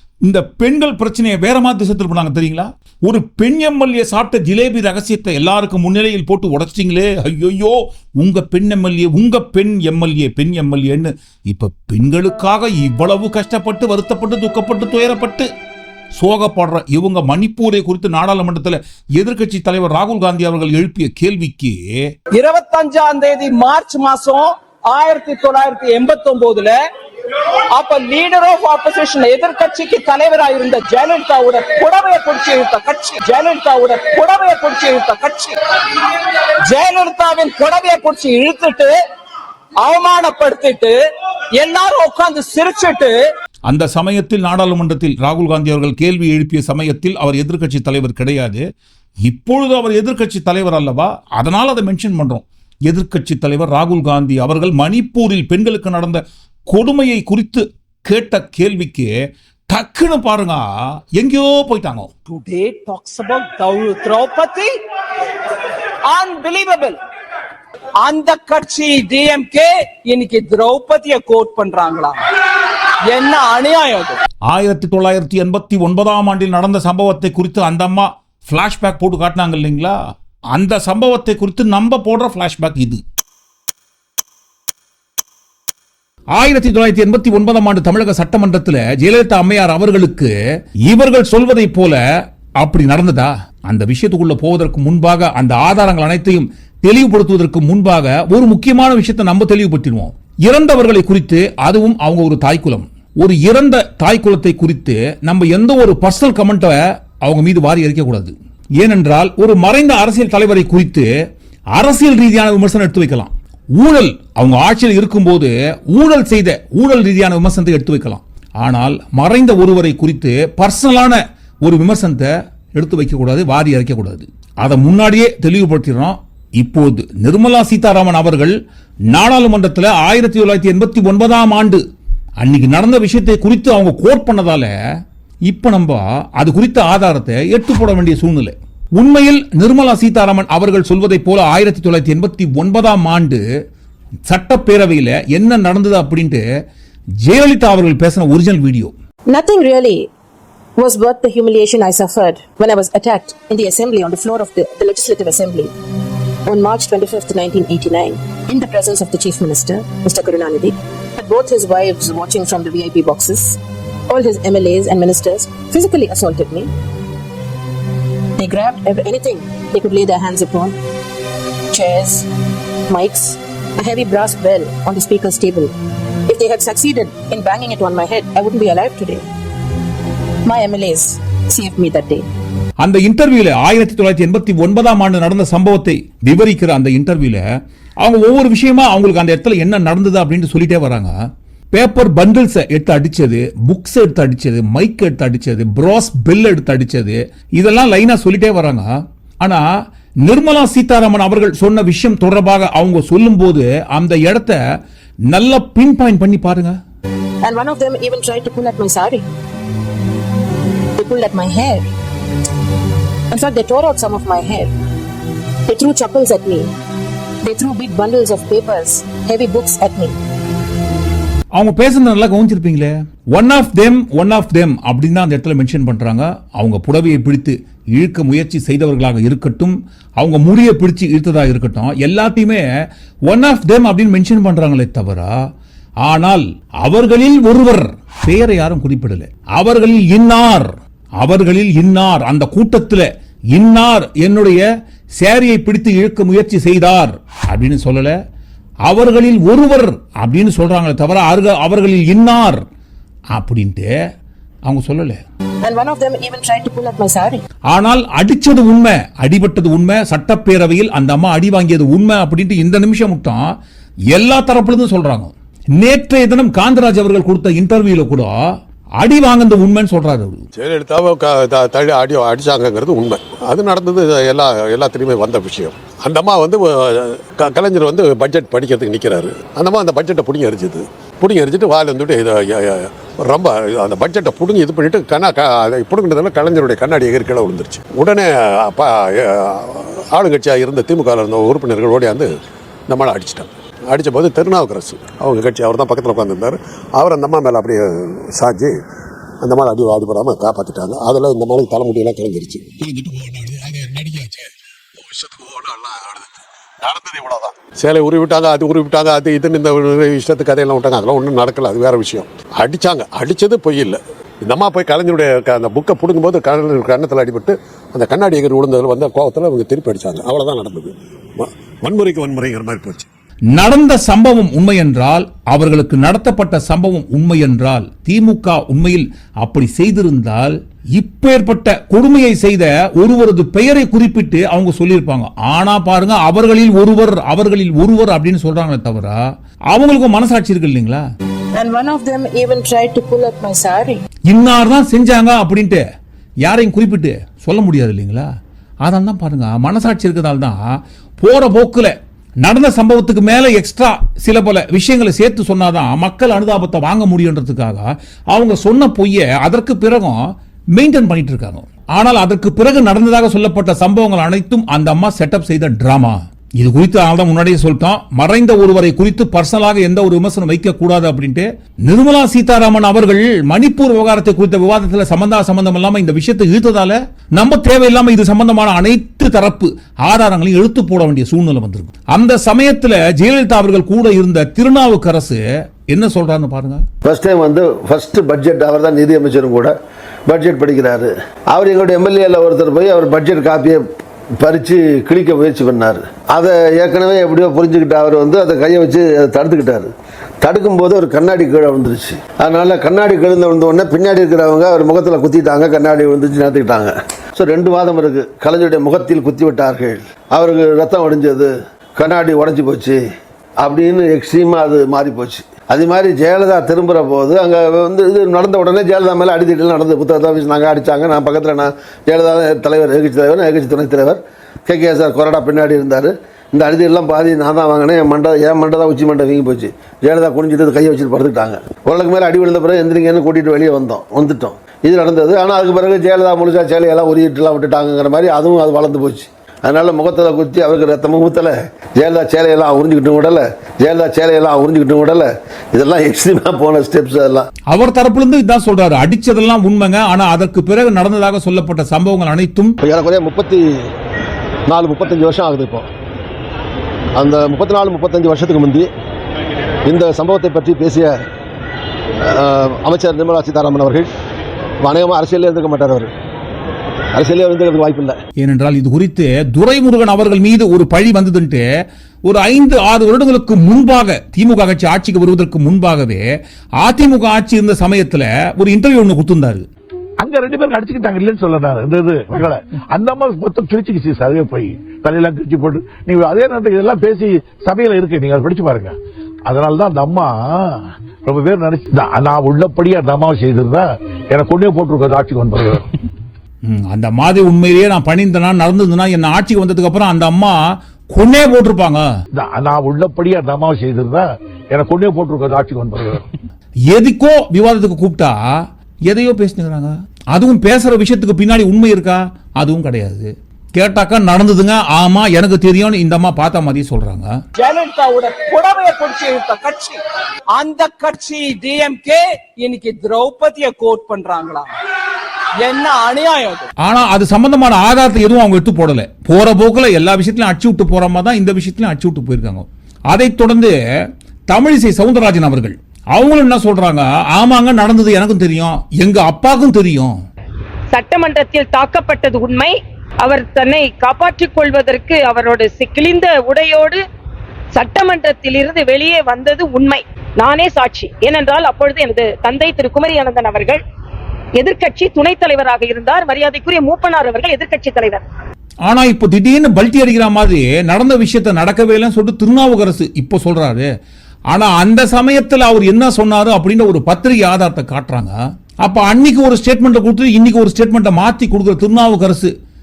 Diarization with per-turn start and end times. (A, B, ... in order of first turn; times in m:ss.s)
0:00.2-0:15.5 A
0:16.2-0:22.1 A
0:22.3-0:26.7 B
0:27.7-0:35.6 B
0:36.7-0:39.0 B
0:39.8-0:41.0 B
0:41.6-0:43.2 B
0:43.7-0:48.6 A
0:49.2-0:59.1 A
0:59.7-1:00.6 A
1:01.2-1:02.1 A
1:02.3-1:04.7 B
1:06.1-1:07.0 B
1:08.0-1:12.2 B
1:13.1-1:14.2 B
1:14.5-1:20.0 A
1:20.5-1:23.0 A
1:26.4-1:30.3 A
1:30.9-1:32.0 A
1:32.6-1:51.1 A
1:51.8-2:08.6 A
2:09.1-2:11.8 A
2:12.4-2:14.7 A
2:15.5-2:23.4 A
2:24.3-2:26.4 A
2:27.2-2:28.9 A
2:29.3-2:30.1 C
2:30.8-2:35.7 C
2:36.5-2:43.6 C
2:44.1-2:46.7 C
2:48.4-2:50.8 C
2:51.7-2:52.3 C
2:52.9-2:55.7 C
2:56.3-2:59.2 C
3:00.5-3:02.2 C
3:02.8-3:07.4 A
3:08.0-3:11.1 A
3:11.7-3:19.6 A
3:20.2-3:24.6 A
3:25.3-3:26.8 A
3:27.4-3:29.2 C
3:31.0-3:31.9 C
3:33.3-3:34.7 C
3:35.7-3:36.7 C
3:37.4-3:40.2 C
3:41.6-3:52.6 A
3:53.3-3:55.3 A
3:56.1-4:04.6 A
4:05.2-4:08.2 A
4:08.9-4:12.6 A
4:13.3-4:13.9 A
4:14.7-4:15.2 A
4:15.6-4:17.4 C
4:17.7-4:23.4 A
4:24.1-4:28.4 A
4:29.0-4:30.5 A
4:30.6-4:52.3 D
4:52.9-4:58.8 D
4:59.4-5:04.5 D
5:05.0-5:23.1 D
5:23.5-5:39.2 A
5:39.7-5:41.0 A
5:41.6-5:44.0 C
5:44.3-5:45.8 A
5:46.5-5:48.3 A
5:48.8-5:50.6 A
5:51.2-6:00.2 A
6:00.7-6:26.8 A
6:27.0-6:29.7 E
6:30.3-6:33.8 E
6:34.4-6:39.9 E
6:40.4-6:53.0 E
6:53.6-7:27.5 E
7:27.7-7:32.8 A
7:32.8-7:33.6 E
7:34.7-7:35.9 E
7:37.2-7:38.9 E
7:39.9-7:41.2 E
7:42.2-7:44.1 E
7:44.8-7:46.1 E
7:47.2-7:48.2 E
7:48.4-7:51.6 A
7:52.3-7:56.3 A
7:56.8-7:59.7 A
8:00.2-8:08.9 F
8:09.5-8:15.9 F
8:16.7-8:20.6 A
8:21.1-8:22.0 A
8:22.4-8:26.3 F
8:26.9-8:28.4 A
8:29.1-8:37.3 A
8:37.6-8:40.0 B
8:40.6-8:44.7 B
8:45.6-8:46.7 B
8:46.8-8:53.7 A
8:54.5-9:00.1 A
9:00.9-9:07.0 G
9:07.8-9:13.8 G
9:14.6-9:18.2 G
9:18.9-9:23.9 A
9:24.5-9:32.5 A